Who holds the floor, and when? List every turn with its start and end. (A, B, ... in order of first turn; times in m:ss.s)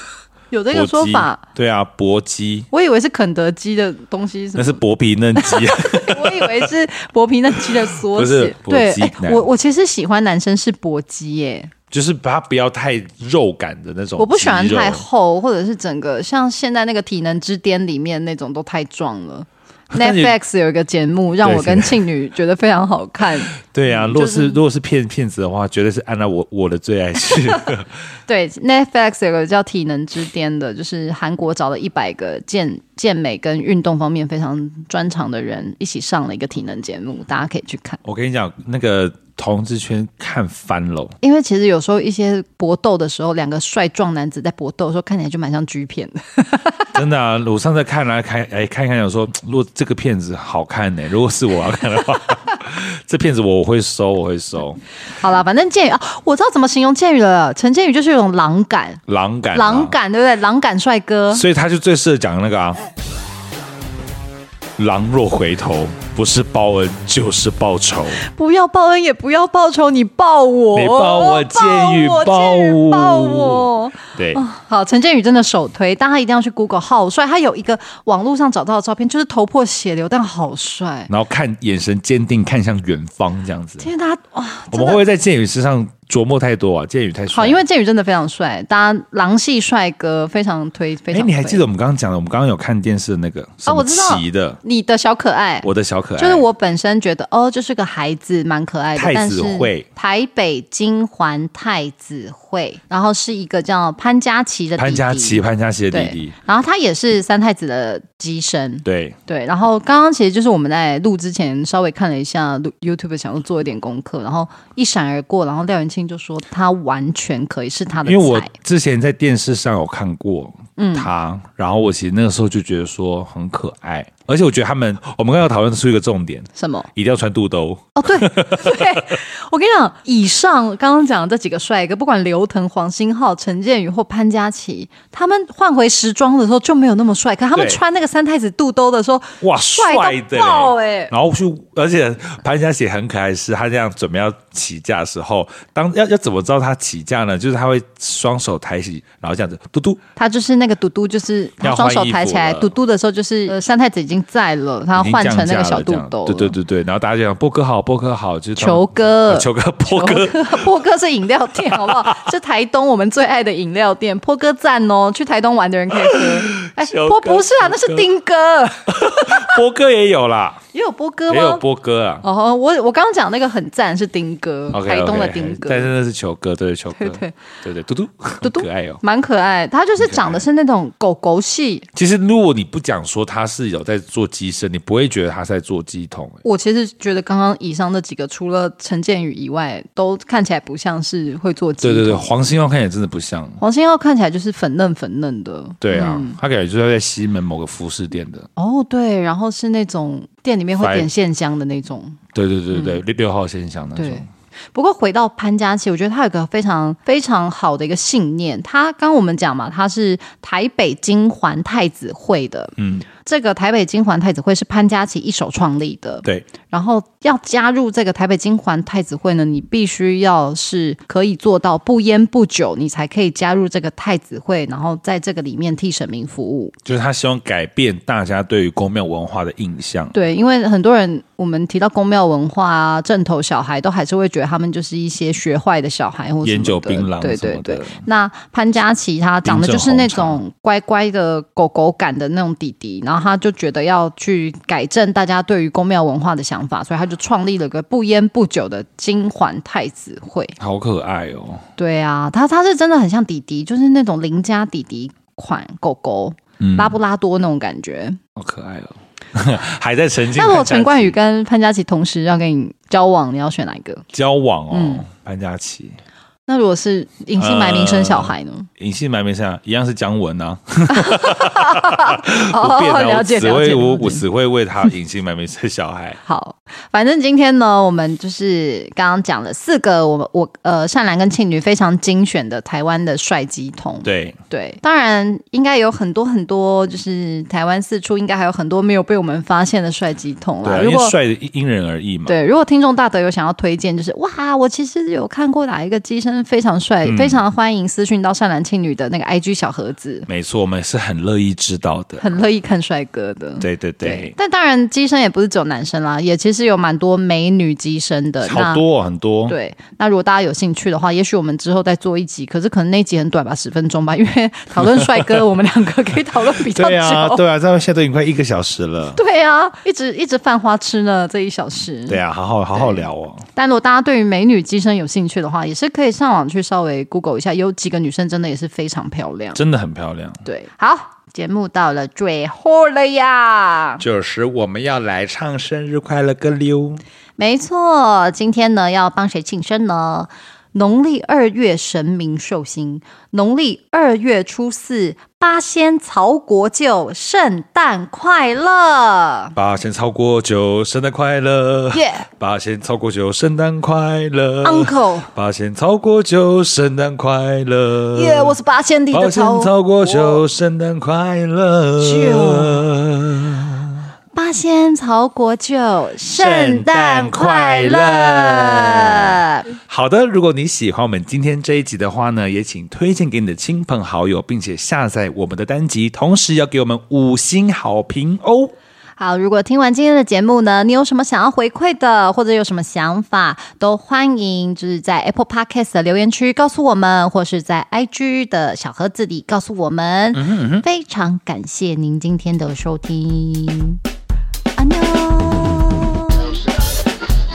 0:00.5-0:01.4 A
0:00.7-0:02.7 B
0:02.7-0:04.8 A
0:04.6-0:06.7 B
0:05.4-0:11.7 A
0:08.0-0:09.5 B
0:11.9-0:15.0 B
0:14.2-0:24.6 A
0:19.9-0:20.4 B
0:21.4-0:22.0 B
0:23.5-0:27.9 B
0:28.3-0:38.0 A
0:38.0-0:41.1 B
0:41.2-0:46.9 A
0:46.9-0:54.8 B
0:55.1-1:01.4 A
0:59.1-0:59.9 B
1:01.3-1:02.8 B
1:04.8-1:08.2 B
1:08.2-1:21.1 A
1:10.7-1:14.4 B
1:21.1-1:23.9 B
1:23.8-1:25.0 A
1:24.7-1:27.6 B
1:27.3-1:31.6 A
1:31.1-1:34.6 B
1:33.6-1:35.7 A
1:35.6-1:36.4 B
1:36.2-1:58.5 A
1:39.0-1:39.8 B
1:44.8-1:46.3 B
1:48.8-1:49.2 B
1:58.0-2:09.2 B
2:00.8-2:01.1 A
2:06.6-2:06.9 A
2:08.0-2:21.1 A
2:17.5-2:17.8 B
2:19.4-2:30.0 B
2:30.2-2:36.5 A
2:31.6-2:32.7 B
2:34.9-2:40.6 B
2:38.6-2:49.6 A
2:41.7-2:42.3 B
2:45.9-2:48.1 B
2:48.9-2:50.6 B
2:50.7-2:51.6 A
2:51.3-2:52.2 B
2:52.2-2:55.9 A
2:54.7-2:59.0 B
2:56.9-2:57.4 A
2:58.4-3:01.9 A
3:00.0-3:00.4 B
3:01.9-3:06.4 B
3:06.4-3:12.3 A
3:11.8-3:13.6 B
3:13.6-3:16.4 A
3:15.8-3:18.5 B
3:18.6-3:22.2 A
3:20.8-3:21.1 B
3:22.3-3:24.3 B
3:22.7-3:23.0 A
3:24.0-3:46.7 A
3:32.8-3:33.0 B
3:46.8-3:50.1 B
3:50.1-4:10.6 A
3:56.4-3:58.0 B
3:59.4-4:00.4 B
4:10.6-4:11.6 B
4:11.8-4:18.2 A
4:16.6-4:17.0 B
4:18.4-4:21.1 B
4:20.3-4:24.0 A
4:24.1-4:26.0 B
4:24.7-4:25.0 A
4:26.5-4:28.7 A
4:27.4-4:36.2 B
4:30.9-4:34.2 A
4:36.2-4:51.2 A
4:44.0-4:44.4 B
4:50.6-4:52.3 B
4:52.2-5:00.3 A
4:57.0-4:57.4 B
5:00.3-5:02.4 B
5:02.2-5:08.8 A
5:03.6-5:04.3 B
5:08.4-5:09.5 B
5:09.5-5:17.4 A
5:14.8-5:15.4 B
5:16.5-5:19.2 B
5:19.1-5:22.2 A
5:22.1-5:23.4 B
5:22.7-5:29.6 A
5:29.5-5:30.4 B
5:30.4-5:34.0 A
5:34.0-5:37.0 B
5:37.4-5:49.5 A
5:49.5-5:58.5 B
5:51.9-5:52.3 A
5:54.6-5:55.3 A
5:58.1-6:00.4 A
5:59.1-6:04.1 B
6:02.0-6:02.9 A
6:04.3-6:09.7 A
6:06.3-6:18.7 B
6:19.2-6:34.0 A
6:30.3-6:30.8 B
6:34.7-6:36.5 A